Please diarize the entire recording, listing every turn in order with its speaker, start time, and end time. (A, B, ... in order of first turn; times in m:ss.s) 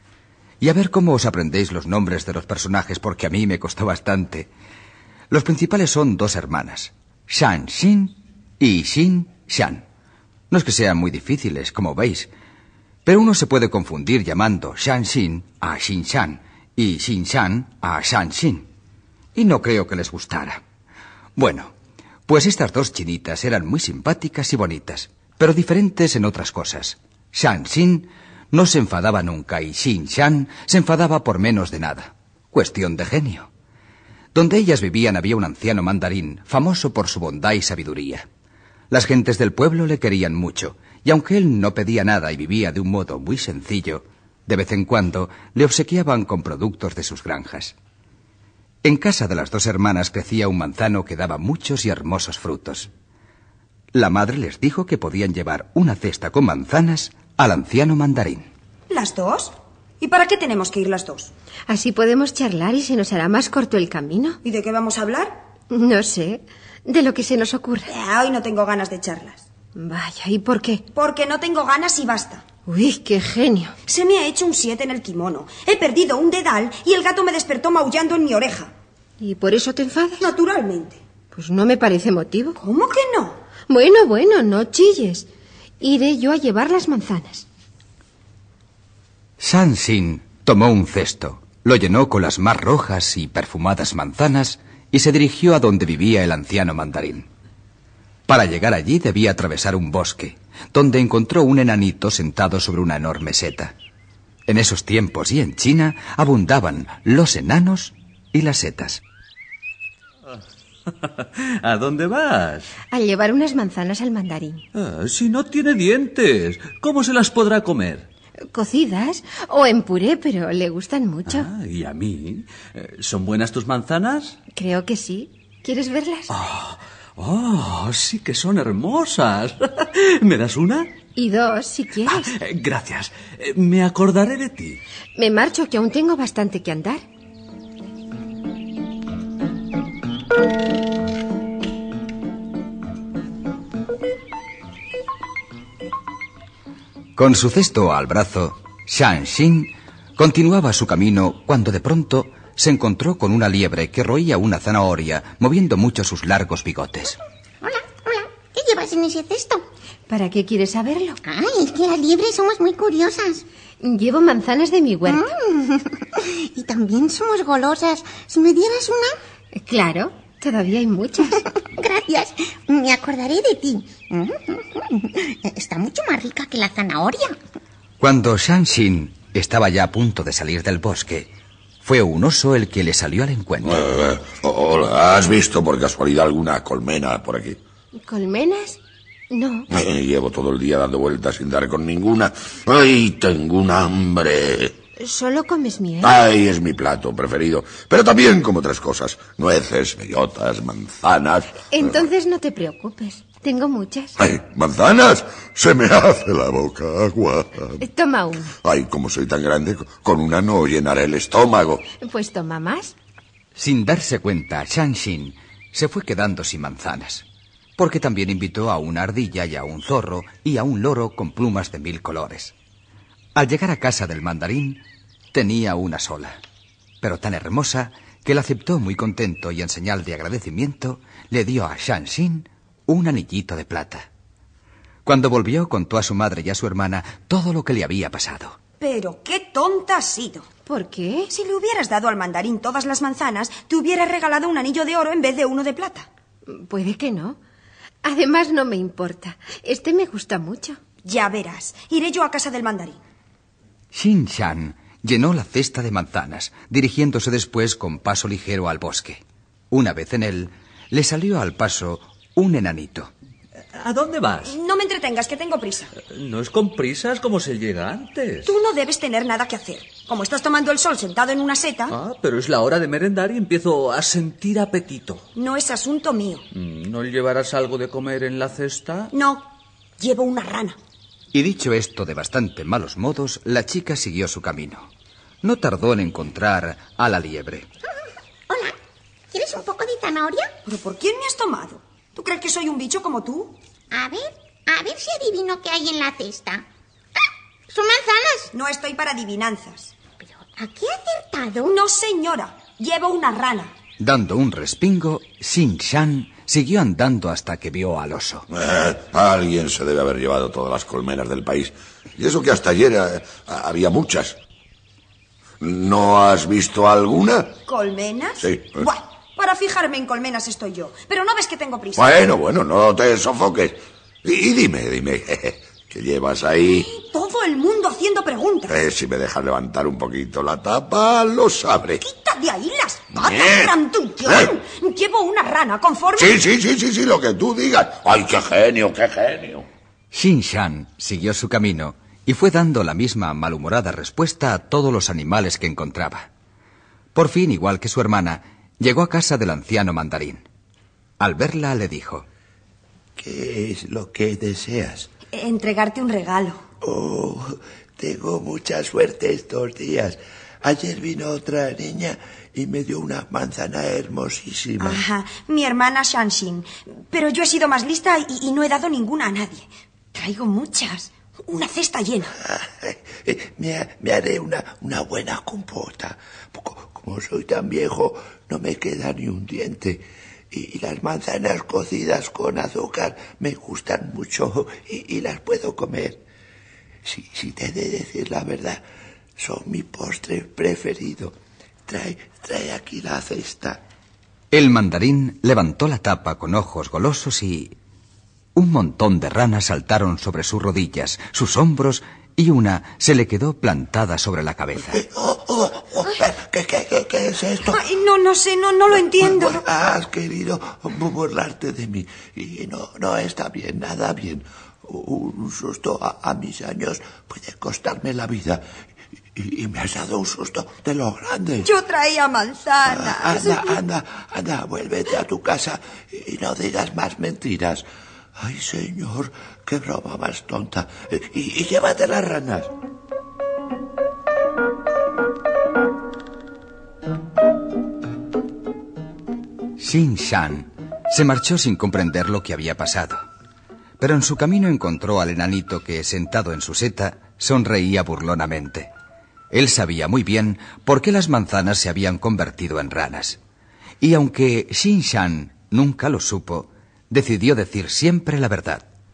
0:00.6-0:04.5 A
0:05.3-0:09.8 A
0:10.5-0:12.3 A
0:13.0-0:18.7 A
0:19.3-0:20.6 A
0:21.4-0:21.7 A
0:22.3-0:33.5 A
0:34.3-0:38.2 A
0:38.9-0:47.7 A
0:48.8-0:52.9 A
0:53.9-0:58.5 A
0:58.9-1:01.3 B
1:01.7-1:04.4 C
1:04.4-1:05.4 B
1:05.7-1:07.9 C
1:07.8-1:09.4 B
1:09.8-1:10.8 C
1:10.9-1:12.4 B
1:12.7-1:13.7 C
1:13.9-1:18.7 B
1:19.2-1:20.3 C
1:20.2-1:21.0 B
1:21.3-1:22.6 C
1:22.6-1:23.4 B
1:23.7-1:25.3 C
1:25.8-1:27.4 C
1:29.4-1:37.3 A
1:38.3-1:43.7 A
1:44.5-1:49.0 A
1:51.0-1:52.7 D
1:52.9-1:54.6 C
1:54.7-1:58.1 D
1:58.5-2:01.5 C
2:01.3-2:04.4 D
2:04.5-2:06.3 C
2:06.3-2:10.9 D
2:11.2-2:12.3 C
2:12.1-2:14.8 D
2:15.2-2:17.0 C
2:27.2-2:37.2 A
2:37.6-2:39.6 E
2:40.1-2:41.2 C
2:41.3-2:43.4 E
2:43.8-2:45.3 C
2:45.1-2:49.2 E
2:49.5-2:51.4 C
2:51.8-2:57.4 E
2:58.0-3:01.3 A
3:01.8-3:03.9 A
3:03.6-3:07.6 F
3:08.0-3:08.8 C
3:09.3-3:09.7 C
3:09.7-3:14.8 F
3:15.0-3:16.2 C
3:16.0-3:22.0 F
3:21.7-3:24.2 C
3:24.2-3:27.8 F
3:27.8-3:28.5 C
3:28.6-3:31.8 F
3:32.0-3:32.9 C
3:33.5-3:37.2 A
3:37.8-3:42.5 A
3:43.3-3:46.4 A
3:47.0-3:54.1 A
3:55.0-3:58.6 A
3:58.8-4:00.4 B
4:00.7-4:01.3 C
4:01.3-4:06.1 B
4:06.5-4:07.4 C
4:08.0-4:10.8 C
4:11.0-4:13.0 B
4:13.9-4:23.1 A
4:23.7-4:24.6 D
4:24.4-4:25.9 B
4:26.0-4:28.5 D
4:28.4-4:32.0 B
4:31.9-4:35.2 D
4:35.3-4:36.4 B
4:36.5-4:39.1 D
4:39.1-4:40.8 B
4:41.3-4:44.9 A
4:45.4-4:47.7 A
4:48.5-4:48.7 E
4:49.3-4:50.5 E
4:50.6-4:53.6 B
4:53.9-4:56.6 E
4:57.7-4:58.5 E
4:58.5-4:59.9 B
5:00.4-5:01.7 E
5:01.6-5:03.7 B
5:04.0-5:08.5 A
5:08.5-5:14.4 F
5:15.6-5:17.6 F
5:17.7-5:22.1 B
5:18.4-5:18.8 F
5:22.0-5:26.9 F
5:26.6-5:28.8 B
5:28.7-5:32.0 F
5:32.0-5:36.4 B
5:33.2-5:33.7 F
5:34.2-5:34.5 F
5:36.2-5:39.7 F
5:40.1-5:46.3 A
5:47.1-5:50.4 A
5:51.2-5:52.2 A
5:53.2-5:55.1 G
5:55.3-5:56.6 B
5:56.8-6:05.0 G
6:04.8-6:12.4 B
6:12.4-6:26.2 G
6:27.0-6:28.8 G
6:29.4-6:31.3 G
6:31.9-6:33.8 G
6:34.5-6:37.7 A
6:38.5-6:45.0 A
6:44.9-6:47.8 G
6:47.6-6:49.6 B
6:49.1-6:58.6 G
6:59.4-7:01.7 G
7:01.6-7:03.8 B
7:02.8-7:07.8 G
7:08.4-7:12.7 G
7:19.8-7:23.2 A
7:24.0-7:28.9 A
7:29.5-7:33.4 A
7:34.0-7:38.8 A